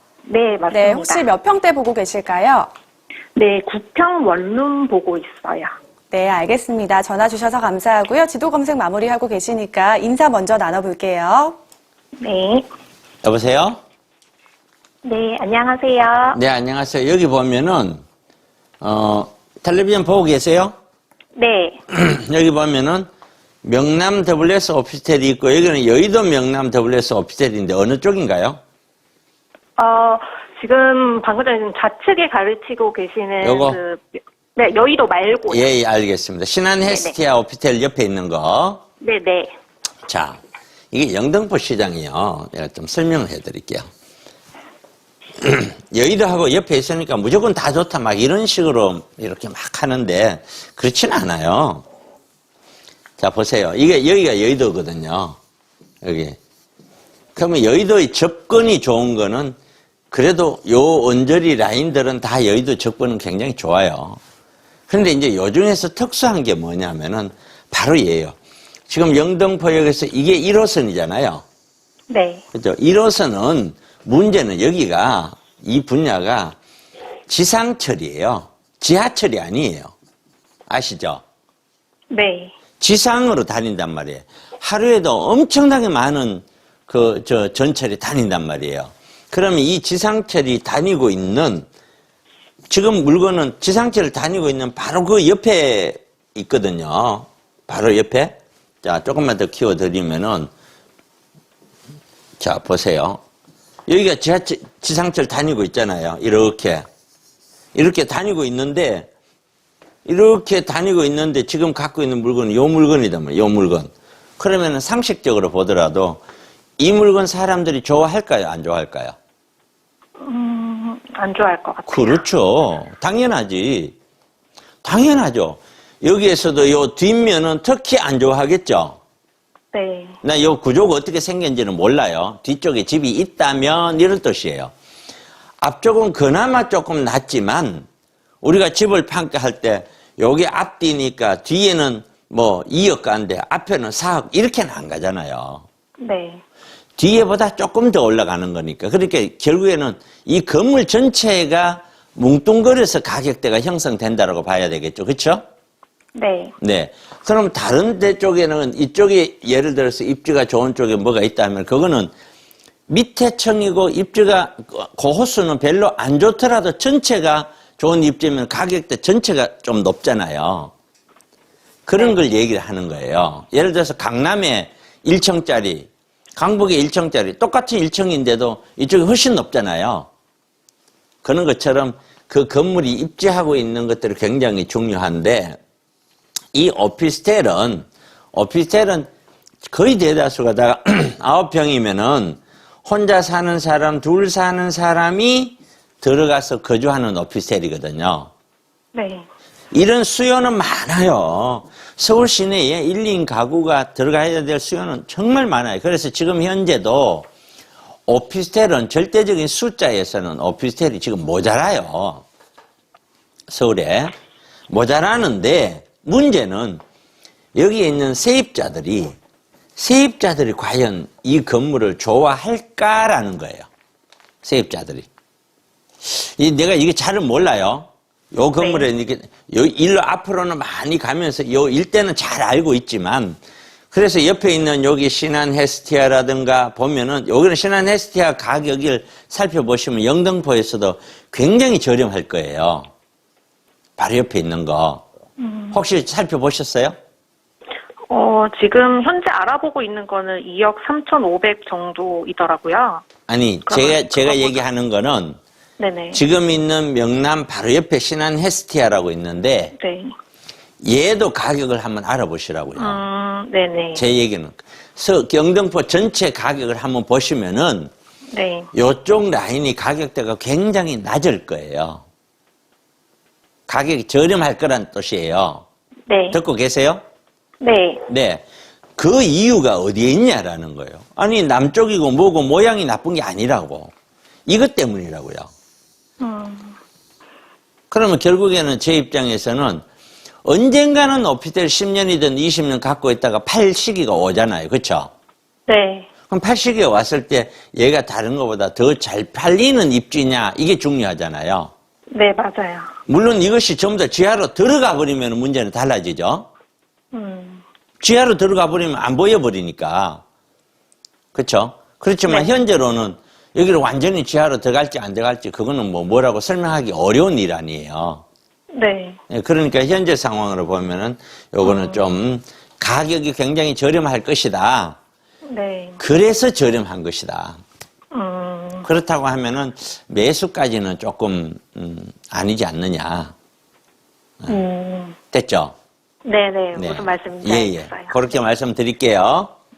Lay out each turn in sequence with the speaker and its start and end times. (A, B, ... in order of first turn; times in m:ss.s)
0:00.3-0:01.2 A
0:00.7-0:02.7 B
0:03.3-0:05.7 A
0:06.1-0:11.6 B
0:12.2-0:12.6 A
0:13.2-0:13.8 C
0:15.0-0:16.4 A
0:16.3-0:18.0 C
0:18.8-0:20.8 C
0:21.4-0:21.8 A
0:21.9-0:23.1 C
0:23.6-0:28.6 C
0:29.8-0:35.7 A
0:33.4-0:33.8 C
0:35.5-0:38.8 C
0:36.8-0:37.2 A
0:39.0-0:39.5 A
0:40.1-0:40.4 C
0:40.9-0:43.9 C
0:45.4-0:51.8 C
0:53.2-0:55.4 C
0:56.0-0:56.4 C
0:57.4-0:59.6 C
1:00.1-1:04.2 C
1:04.9-1:08.4 C
1:08.9-1:11.4 C
1:12.1-1:12.4 A
1:12.5-1:16.6 C
1:17.3-1:19.9 C
1:20.7-1:21.2 C
1:22.1-1:22.5 A
1:22.8-1:31.7 C
1:32.7-1:40.5 C
1:42.4-1:43.2 C
1:43.9-1:46.8 C
1:47.7-1:49.1 C
1:50.0-1:56.2 C
1:56.8-1:59.2 C
2:00.2-2:02.2 A
2:01.9-2:04.0 C
2:04.8-2:09.0 C
2:09.7-2:10.2 A
2:10.2-2:14.7 C
2:15.6-2:17.8 C
2:18.4-2:25.6 C
2:26.0-2:26.4 A
2:27.0-2:35.4 C
2:36.2-2:36.6 A
2:36.6-2:42.1 C
2:42.9-2:50.7 C
2:51.9-3:00.1 C
3:01.2-3:05.6 C
3:06.5-3:09.1 C
3:09.7-3:18.3 C
3:18.9-3:19.2 A
3:19.7-3:27.3 C
3:28.1-3:32.2 C
3:33.5-3:34.1 C
3:34.7-3:36.8 C
3:37.6-3:39.2 C
3:39.8-3:43.7 C
3:44.4-3:45.1 C
3:46.0-3:53.4 C
3:48.6-3:48.9 A
3:53.9-4:02.9 C
4:04.0-4:05.0 C
4:05.4-4:05.8 A
4:05.7-4:06.9 C
4:08.1-4:13.1 A
4:13.3-4:15.4 C
4:13.6-4:14.6 A
4:15.8-4:16.2 A
4:16.1-4:19.7 C
4:19.8-4:20.1 A
4:20.8-4:23.0 C
4:22.8-4:24.0 A
4:24.0-4:27.9 C
4:28.3-4:28.7 A
4:28.7-4:32.0 C
4:33.7-4:35.6 C
4:36.1-4:36.4 A
4:36.3-4:37.0 C
4:37.6-4:38.0 A
4:38.1-4:38.4 C
4:39.0-4:43.9 C
4:44.5-4:45.5 C
4:46.2-4:46.8 A
4:47.9-4:49.8 C
4:50.4-4:55.1 C
4:55.7-4:56.1 A
4:56.3-5:01.7 C
5:02.1-5:02.9 A
5:03.1-5:06.5 C
5:07.1-5:07.6 A
5:08.0-5:10.2 C
5:11.3-5:18.2 C
5:12.2-5:12.5 A
5:18.7-5:19.2 A
5:19.3-5:25.0 C
5:21.6-5:22.0 A
5:25.5-5:26.0 A
5:26.0-5:27.6 C
5:28.1-5:28.9 A
5:28.8-5:33.3 C
5:34.5-5:35.2 A
5:35.3-5:35.8 C
5:36.2-5:38.4 A
5:36.8-5:39.5 C